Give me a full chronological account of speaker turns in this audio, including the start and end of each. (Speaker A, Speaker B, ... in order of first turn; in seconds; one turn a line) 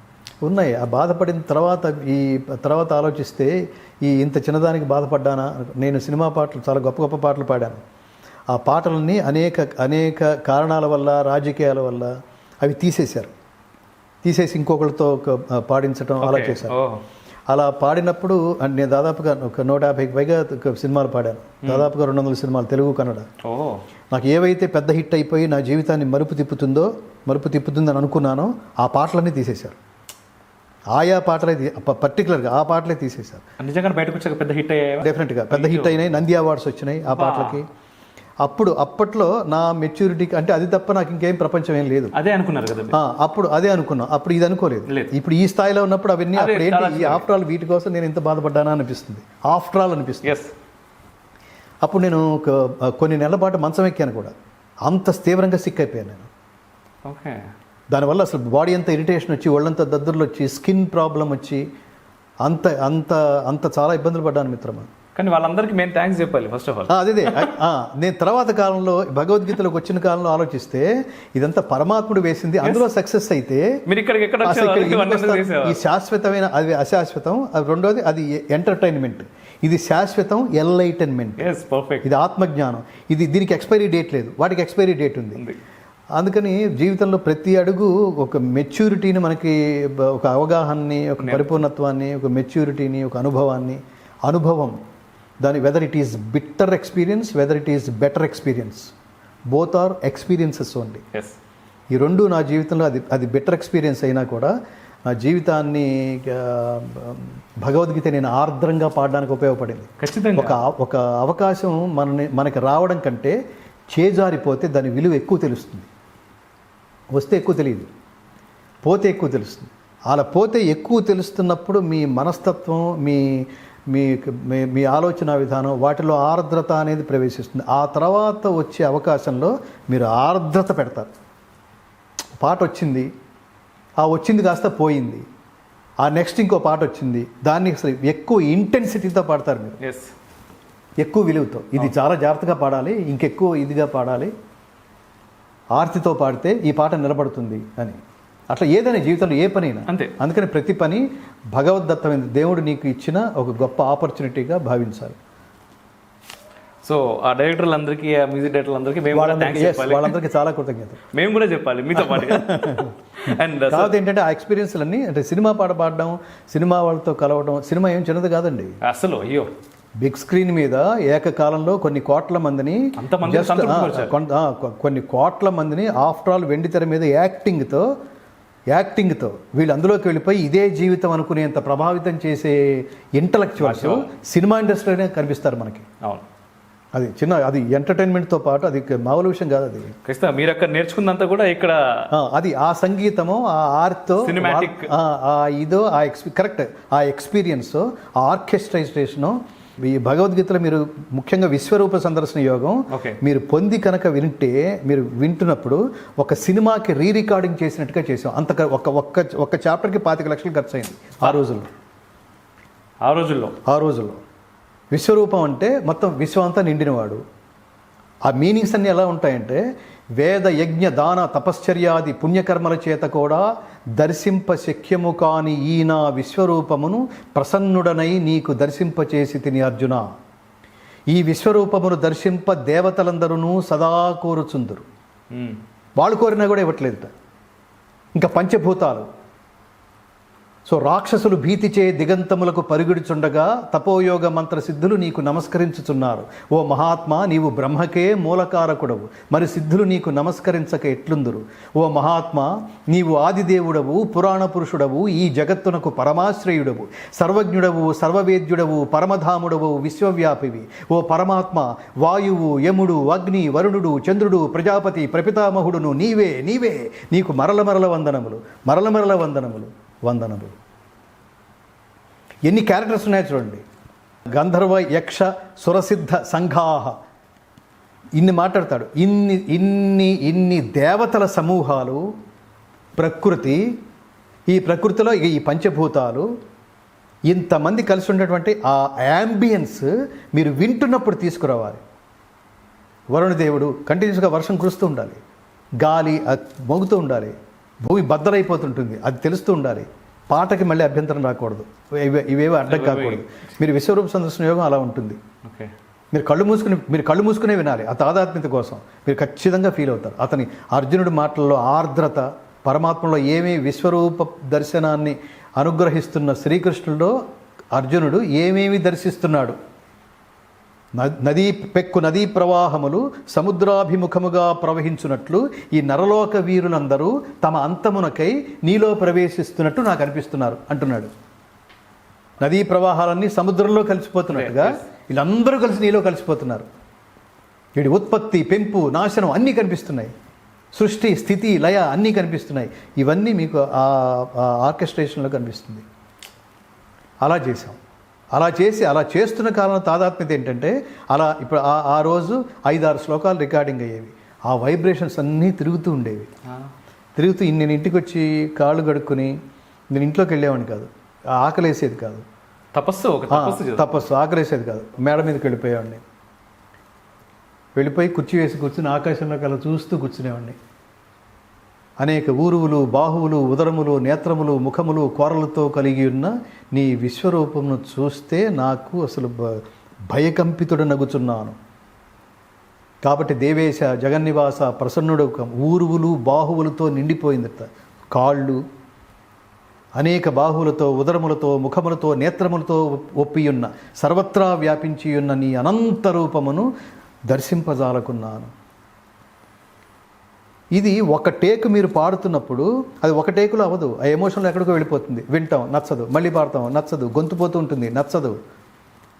Speaker A: 0.4-7.8
Speaker A: 8.5-13.3
Speaker A: 14.2-16.7
Speaker B: 16.2-17.0
Speaker A: 17.5-23.2
Speaker B: 23.4-23.8
Speaker A: 24.1-29.8
Speaker A: 30.9-33.4
Speaker B: 33.6-36.0
Speaker A: 35.0-37.6
Speaker B: 37.1-37.6
Speaker A: 38.4-42.1
Speaker B: 42.1-43.0
Speaker A: 42.9-50.3
Speaker B: 46.3-47.3
Speaker B: 50.2-50.5
Speaker A: 51.8-54.3
Speaker A: 54.9-56.3
Speaker B: 57.0-57.4
Speaker A: 57.9-61.6
Speaker A: 62.4-64.9
Speaker B: 65.2-67.5
Speaker A: 66.9-73.7
Speaker B: 73.9-75.8
Speaker A: 74.4-81.5
Speaker B: 81.4-82.1
Speaker A: 82.0-85.4
Speaker A: 86.2-94.8
Speaker B: 91.2-91.6
Speaker A: 95.4-98.9
Speaker A: 99.5-101.0
Speaker A: 101.9-104.5
Speaker A: 105.1-113.3
Speaker B: 110.0-110.6
Speaker A: 113.9-115.9
Speaker A: 117.1-117.9
Speaker A: 118.8-131.1
Speaker A: 132.4-133.1
Speaker A: 134.0-135.2
Speaker A: 136.0-139.8
Speaker B: 139.8-140.1
Speaker A: 141.0-144.3
Speaker A: 145.7-148.0
Speaker A: 148.5-155.2
Speaker B: 149.9-150.1
Speaker B: 156.8-160.2
Speaker A: 159.1-161.0
Speaker B: 161.1-163.9
Speaker A: 161.9-162.9
Speaker A: 163.7-168.8
Speaker B: 168.8-169.5
Speaker A: 170.0-177.9
Speaker B: 173.0-174.2
Speaker A: 178.7-185.8
Speaker B: 183.6-184.1
Speaker A: 186.9-189.9
Speaker B: 190.0-192.1
Speaker A: 192.1-211.7
Speaker B: 194.2-194.9
Speaker B: 202.9-203.2
Speaker B: 213.0-213.6
Speaker A: 213.7-214.2
Speaker A: 214.9-217.2
Speaker A: 218.3-219.6
Speaker A: 220.2-223.4
Speaker A: 224.0-230.1
Speaker A: 231.1-234.8
Speaker B: 235.3-235.6
Speaker A: 236.0-237.1
Speaker A: 238.2-239.1
Speaker A: 240.7-270.6
Speaker A: 272.4-273.6
Speaker A: 274.4-276.9
Speaker A: 278.2-282.1
Speaker A: 283.0-283.7
Speaker A: 284.5-286.3
Speaker A: 287.3-291.8
Speaker A: 293.1-295.2
Speaker A: 295.8-305.2
Speaker B: 302.6-303.2
Speaker B: 305.4-305.7
Speaker A: 306.1-317.1
Speaker A: 317.7-319.6
Speaker A: 321.0-331.1
Speaker A: 332.4-336.7
Speaker B: 334.3-334.8
Speaker A: 337.8-340.1
Speaker A: 340.7-345.8
Speaker A: 347.2-347.8
Speaker A: 348.3-356.3
Speaker A: 357.1-359.4
Speaker A: 359.9-362.2
Speaker B: 362.7-363.9
Speaker A: 363.3-366.0
Speaker A: 367.8-370.6
Speaker A: 372.0-381.6
Speaker A: 383.0-388.6
Speaker A: 390.0-396.7
Speaker A: 397.3-398.5
Speaker A: 400.8-408.4